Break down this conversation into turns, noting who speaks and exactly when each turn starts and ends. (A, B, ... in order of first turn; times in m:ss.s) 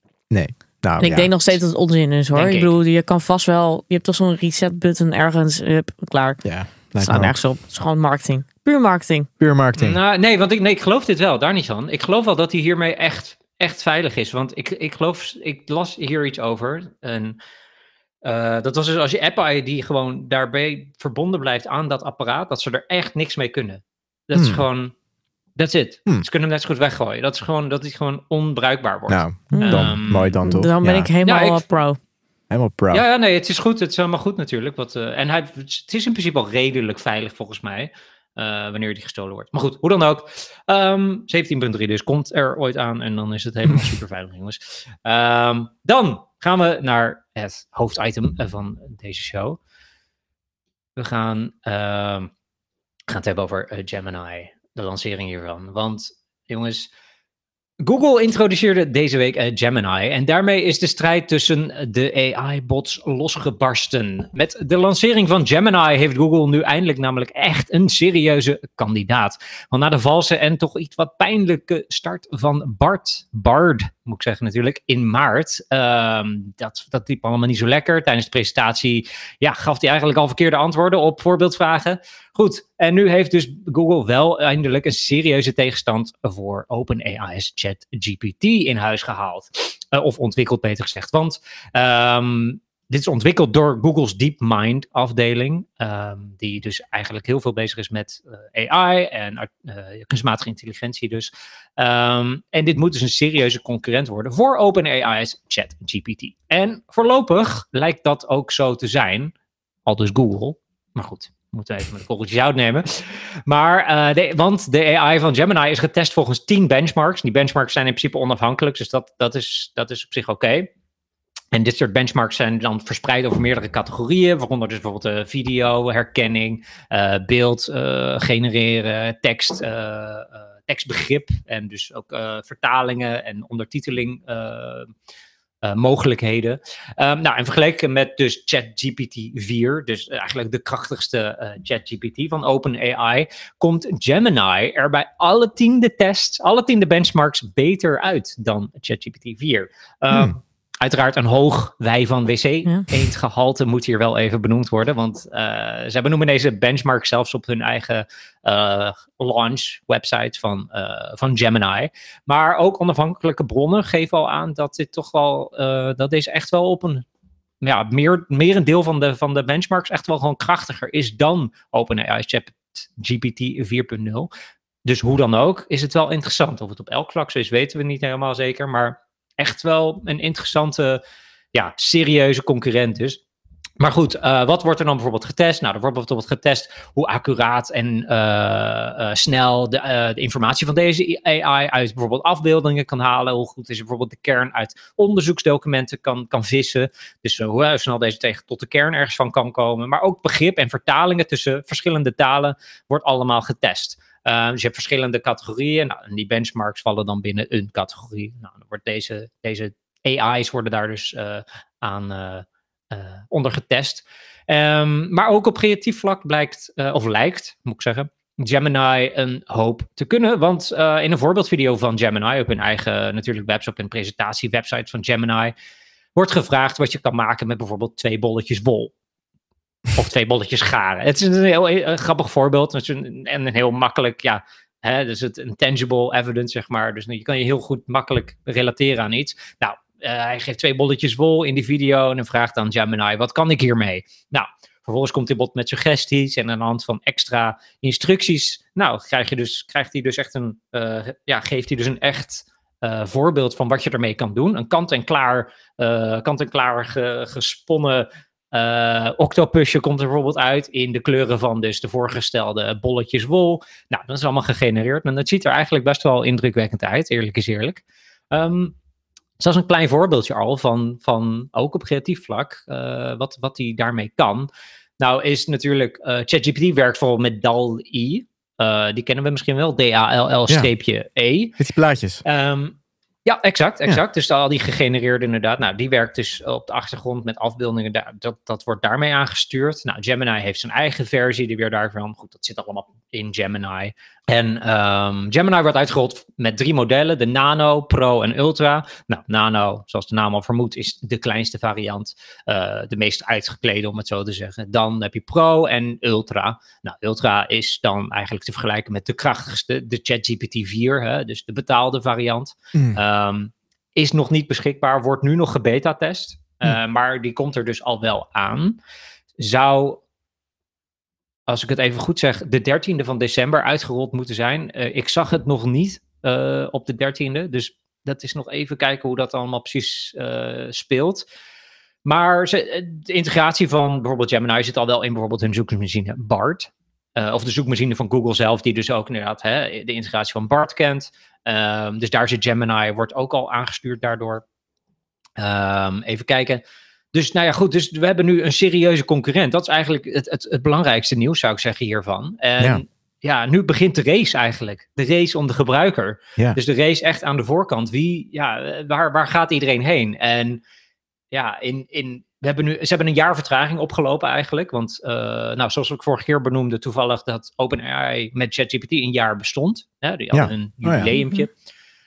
0:00.3-0:01.3 A
0:01.0-0:06.4 B
0:02.3-0:02.7 C
0:06.4-0:07.4 A
0:07.0-0:09.3 B
0:09.4-0:10.0 A
0:09.8-0:17.4 C
0:18.2-0:24.9 C
0:24.3-0:24.6 A
0:25.6-0:30.4 C
0:29.1-0:31.1 A
0:29.5-0:32.0 B
0:31.2-0:31.6 C
0:32.5-0:33.0 A
0:32.9-0:49.6 C
0:51.0-0:52.3 C
0:53.1-0:56.9 C
0:57.8-1:49.3 C
1:49.8-2:00.7 C
2:01.5-2:14.9 C
2:15.6-2:47.0 C
2:30.1-2:30.4 A
2:47.6-2:54.3 C
2:54.8-3:01.0 C
3:01.5-3:03.2 C
3:03.8-3:45.5 C
3:46.1-3:48.9 C
3:49.9-4:28.7 C
4:29.4-4:41.5 C
4:41.6-4:42.2 A
4:42.2-5:18.8 C
5:12.7-5:13.0 A
5:19.4-5:20.0 C
5:21.5-5:31.2 C
5:32.0-5:44.4 C
5:45.4-5:46.6 C
5:47.1-6:00.6 C
6:01.3-6:11.5 C
6:10.3-6:11.1 A
6:11.1-6:11.4 B